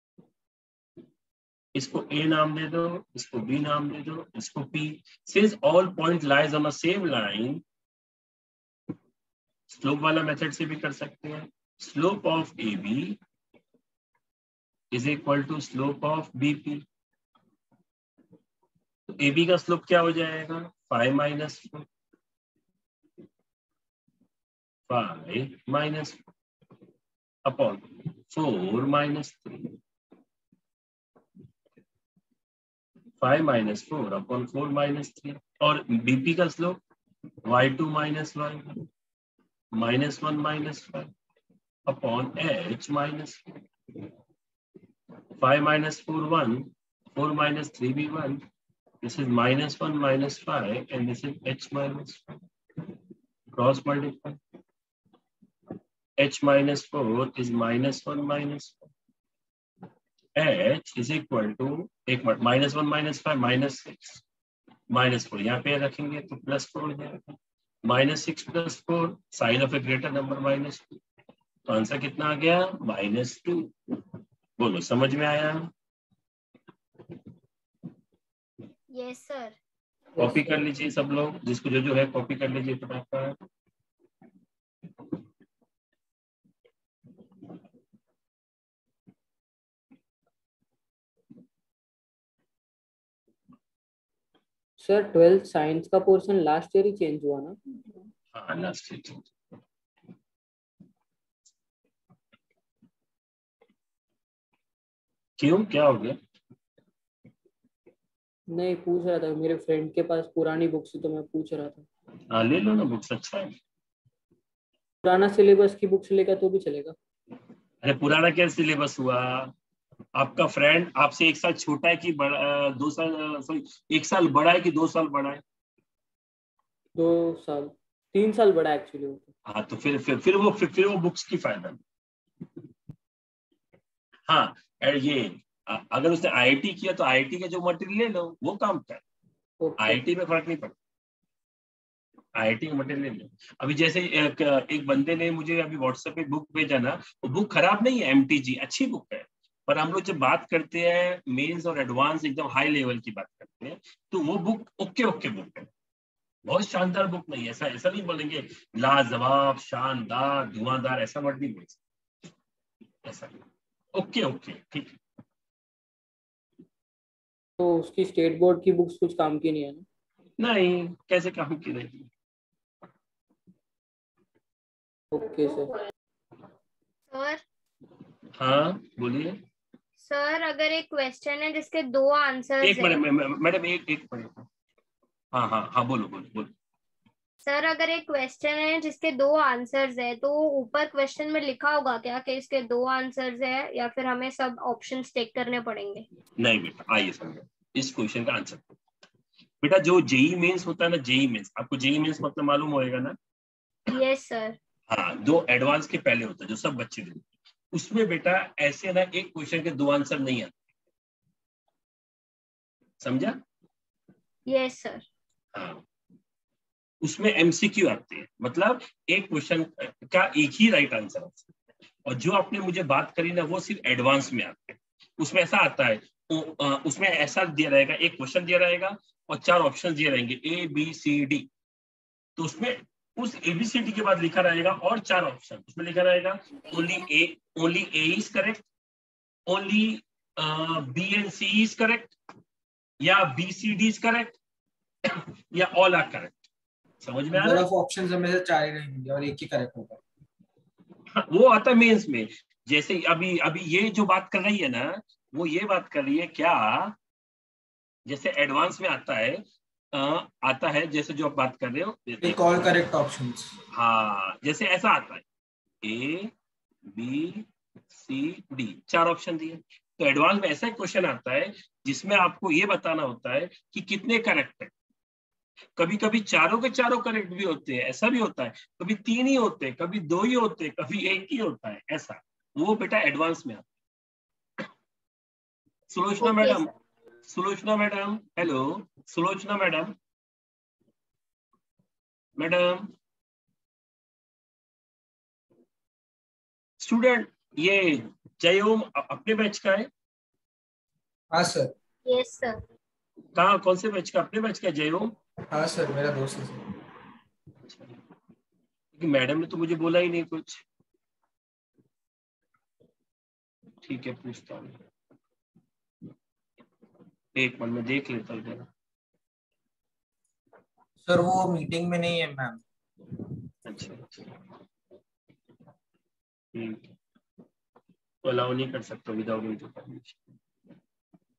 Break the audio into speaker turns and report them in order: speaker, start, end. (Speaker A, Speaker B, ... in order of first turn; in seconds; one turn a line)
Speaker A: 1.8-7.6
Speaker A: 9.7-13.2
Speaker A: 14.9-16.9
Speaker A: 19.2-21.9
Speaker A: 24.9-26.2
Speaker A: 27.4-29.8
Speaker A: 33.2-36.8
Speaker A: 37.5-38.9
Speaker A: 39.7-41.1
Speaker A: 41.9-43.4
Speaker A: 45.4-48.5
Speaker A: 49.0-52.4
Speaker A: 53.5-54.4
Speaker A: 56.2-58.9
Speaker A: 60.4-64.2
Speaker A: 64.9-70.9
Speaker A: 71.7-73.7
Speaker A: 74.6-75.7
Speaker B: 78.9-79.6
Speaker A: 80.2-83.4
Speaker C: 80.2-80.6
Speaker C: 94.8-98.0
Speaker A: 98.3-99.3
Speaker A: 105.4-106.2
Speaker C: 108.5-111.8
Speaker A: 112.3-113.6
Speaker C: 115.0-117.0
Speaker A: 117.8-119.5
Speaker A: 120.2-125.4
Speaker C: 127.0-129.3
Speaker A: 129.5-131.8
Speaker A: 134.3-139.0
Speaker C: 139.6-140.0
Speaker A: 139.8-140.8
Speaker A: 142.4-155.7
Speaker A: 156.5-161.8
Speaker A: 163.0-163.4
Speaker A: 163.9-165.0
Speaker C: 167.6-169.8
Speaker A: 170.4-172.1
Speaker C: 175.1-175.9
Speaker B: 177.1-177.4
Speaker A: 178.4-179.4
Speaker B: 180.0-183.0
Speaker A: 182.6-184.5
Speaker A: 185.3-186.5
Speaker B: 187.4-196.1
Speaker A: 196.4-198.7
Speaker A: 199.6-203.2
Speaker B: 203.9-204.6
Speaker A: 204.9-210.5
Speaker A: 213.0-213.4
Speaker B: 214.5-215.1
Speaker A: 215.6-215.8
Speaker A: 217.0-221.5
Speaker A: 222.1-231.5
Speaker A: 232.4-238.7
Speaker A: 239.5-242.1
Speaker A: 243.0-244.4
Speaker A: 245.1-246.4
Speaker A: 247.0-247.7
Speaker D: 247.3-250.0
Speaker A: 251.1-256.9
Speaker A: 258.1-262.7
Speaker D: 262.2-263.6
Speaker A: 263.7-265.2
Speaker A: 265.8-266.3
Speaker A: 266.9-274.7
Speaker A: 275.8-283.6
Speaker A: 285.9-286.7
Speaker B: 286.2-286.7
Speaker A: 287.3-289.9
Speaker A: 292.4-292.9
Speaker A: 296.8-299.9
Speaker D: 301.3-301.7
Speaker B: 302.1-302.6
Speaker A: 303.4-305.1
Speaker D: 305.5-306.6
Speaker A: 308.9-310.6
Speaker A: 313.8-314.8
Speaker A: 317.4-318.7
Speaker D: 321.1-322.6
Speaker A: 323.6-324.3
Speaker A: 326.5-326.9
Speaker A: 328.2-330.2